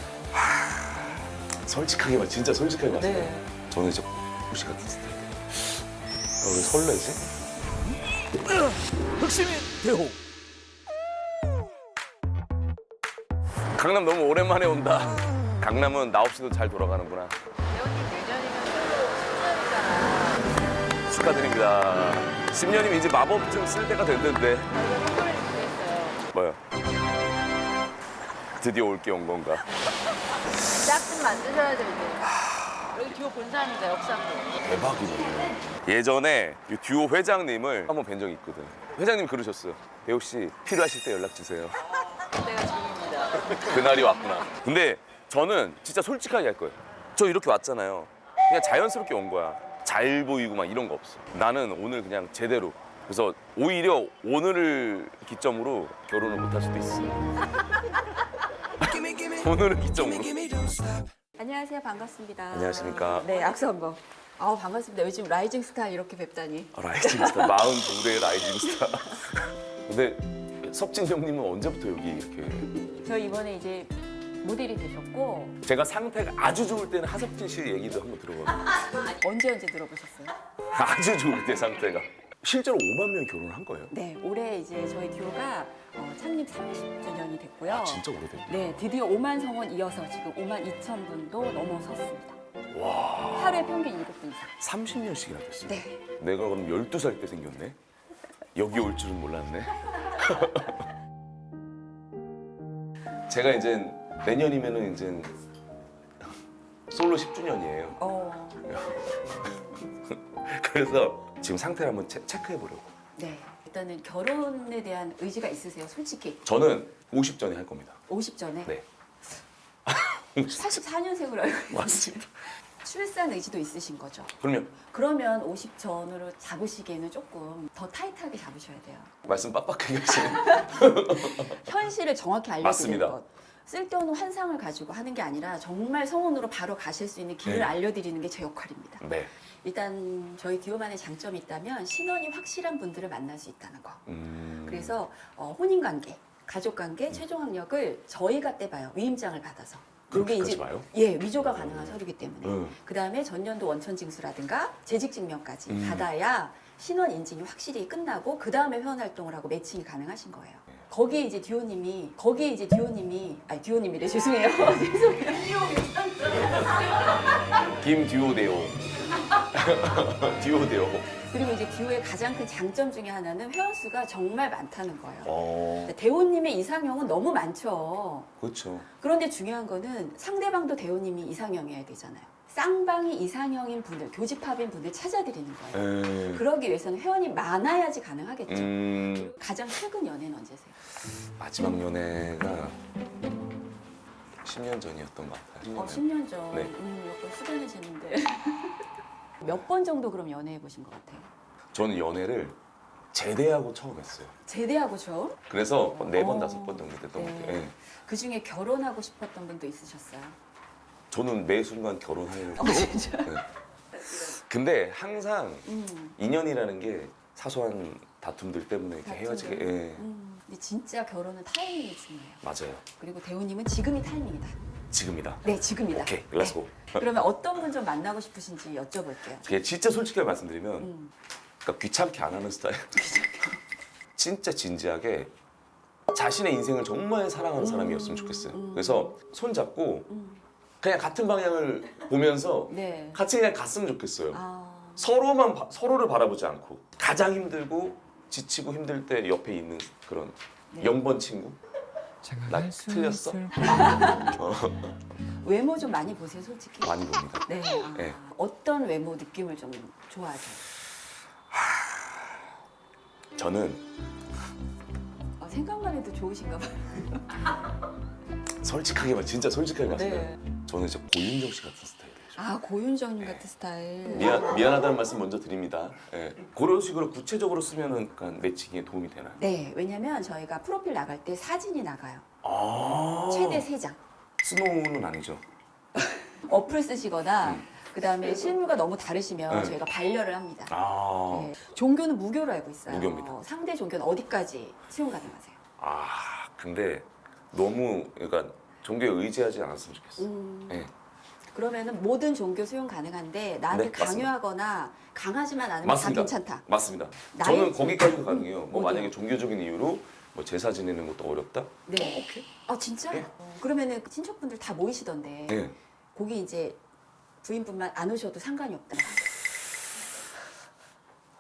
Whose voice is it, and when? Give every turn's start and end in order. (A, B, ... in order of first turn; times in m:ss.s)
0:00.3-0:05.9 A
0:02.9-0:03.5 B
0:06.4-0:07.2 A
0:09.2-0:10.2 A
0:13.8-0:17.4 A
0:17.9-0:20.4 C
0:21.1-0:24.8 A
0:26.3-0:26.6 A
0:28.5-0:29.7 A
0:30.8-0:31.8 B
0:31.1-0:32.1 C
0:32.2-0:33.1 A
0:33.3-0:34.5 C
0:34.6-0:42.2 A
0:42.9-0:43.5 C
0:43.5-0:57.2 A
0:58.8-1:01.0 A
1:01.4-1:09.2 B
1:02.5-1:03.3 A
1:06.7-1:12.7 A
1:12.9-1:15.6 B
1:15.6-1:18.8 A
1:18.9-1:20.4 B
1:20.7-1:23.9 A
1:23.9-1:32.4 B
1:27.7-1:28.8 A
1:32.7-1:33.7 A
1:33.3-1:34.5 B
1:34.6-1:37.8 A
1:35.6-1:36.0 B
1:38.6-1:40.9 A
1:43.3-1:45.4 A
1:46.9-1:48.0 A
1:48.0-1:48.7 B
1:48.6-1:52.9 A
1:53.2-1:56.4 B
1:56.4-1:58.0 A
1:58.1-1:58.8 B
1:59.9-2:00.8 A
2:00.5-2:09.1 B
2:01.7-2:02.3 A
2:04.4-2:04.8 A
2:09.2-2:11.6 A
2:10.1-2:46.9 B
2:12.6-2:13.2 A
2:17.4-2:17.8 A
2:19.0-2:19.3 A
2:24.1-2:25.0 A
2:30.1-2:32.8 A
2:35.7-2:36.1 A
2:47.5-2:51.1 A
2:51.2-2:58.3 B
2:55.2-2:56.0 A
2:58.4-2:58.9 A
2:59.0-3:10.8 B
3:05.7-3:06.4 A
3:08.5-3:09.3 A
3:11.4-3:12.8 A
3:14.4-3:16.7 A
3:15.7-3:18.8 B
3:19.4-3:21.3 B
3:21.7-3:22.6 A
3:23.1-3:24.3 A
3:24.5-3:30.4 B
3:25.5-3:27.8 A
3:31.1-3:33.5 A
3:32.6-3:33.4 B
3:34.1-3:40.1 A
3:35.7-3:36.2 B
3:39.0-3:42.4 B
3:42.4-3:42.8 A
3:43.0-3:44.6 B
3:44.9-3:47.1 A
3:45.4-3:49.5 B
3:49.4-3:50.9 A
3:50.8-3:51.1 B
3:51.6-3:53.4 A
3:53.0-3:53.6 B
3:54.2-3:55.3 A
3:56.1-4:00.1 A
3:57.6-3:59.2 B
4:00.1-4:00.4 B
4:00.8-4:04.4 A
4:02.7-4:03.2 B
4:04.3-4:05.1 B
4:05.0-4:11.6 A
4:12.4-4:14.9 A
4:13.6-4:14.4 B
4:15.4-4:20.6 B
4:16.8-4:18.2 A
4:21.5-4:22.5 A
4:23.4-4:23.9 A
4:25.4-4:27.5 B
4:28.6-4:32.4 A
4:30.0-4:30.4 B
4:32.4-4:34.5 B
4:34.1-4:39.4 A
4:39.4-4:42.2 B
4:42.4-4:43.7 A
4:43.3-4:44.0 B
4:44.4-4:45.4 A
4:46.0-4:50.8 B
4:49.5-4:49.8 A
4:50.7-4:51.5 A
4:51.3-4:55.6 B
4:52.9-4:53.4 A
4:55.8-5:00.9 A
5:00.2-5:00.9 B
5:01.5-5:06.6 B
5:03.7-5:04.3 A
5:05.8-5:12.5 A
5:07.3-5:09.1 B
5:11.9-5:15.6 B
5:15.5-5:15.8 A
5:16.2-5:16.8 B
5:17.4-5:19.4 B